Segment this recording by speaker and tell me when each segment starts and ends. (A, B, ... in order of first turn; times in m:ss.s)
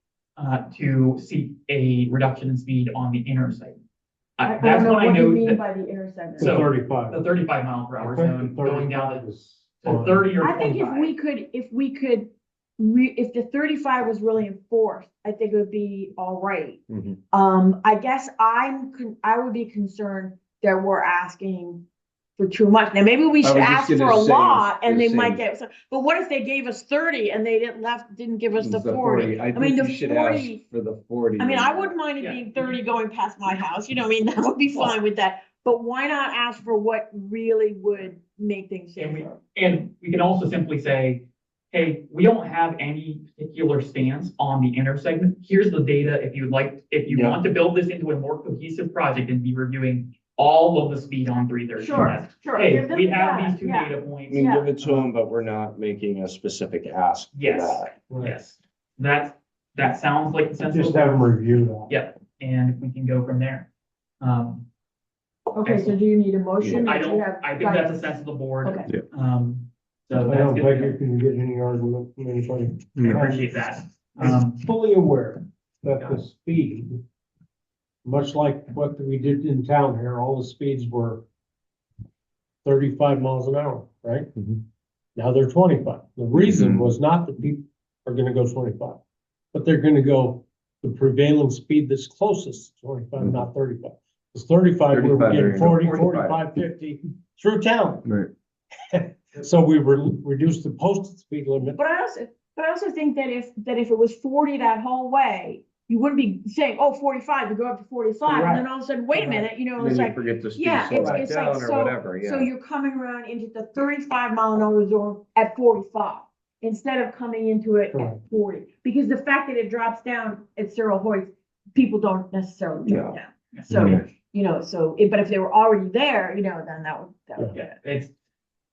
0:00.4-0:03.8 A
0:04.4-0:05.6 A
0:04.4-0:06.6 B
0:06.4-0:07.2 C
0:06.4-0:09.2 A
0:08.0-0:10.3 C
0:09.8-0:11.1 A
0:10.4-0:16.8 B
0:16.9-0:17.2 D
0:17.3-0:21.8 B
0:22.4-0:30.6 B
0:23.4-0:25.4 D
0:28.5-0:31.9 D
0:31.4-0:39.4 B
0:32.2-0:32.8 A
0:39.0-0:54.4 A
0:47.1-0:47.4 D
0:51.8-0:54.7 B
0:54.3-0:57.9 D
0:57.3-1:01.3 A
0:58.1-0:58.4 C
1:00.7-1:01.9 C
1:01.9-1:03.7 A
1:04.2-1:04.6 A
1:05.5-1:08.9 B
1:05.6-1:06.0 A
1:06.6-1:06.9 D
1:06.7-1:11.0 A
1:10.2-1:13.5 C
1:13.0-1:14.6 A
1:14.2-1:17.0 C
1:18.0-1:21.2 C
1:22.6-1:24.3 C
1:25.2-1:29.0 C
1:26.4-1:26.9 D
1:29.5-1:38.1 C
1:34.9-1:36.4 D
1:38.9-1:41.8 C
1:41.8-2:07.6 B
1:48.2-1:48.6 C
1:49.1-1:49.5 C
1:49.8-1:52.5 D
1:50.9-1:51.3 C
1:57.9-1:58.2 C
2:02.9-2:03.2 D
2:03.5-2:03.9 A
2:03.7-2:04.0 D
2:07.5-2:08.1 A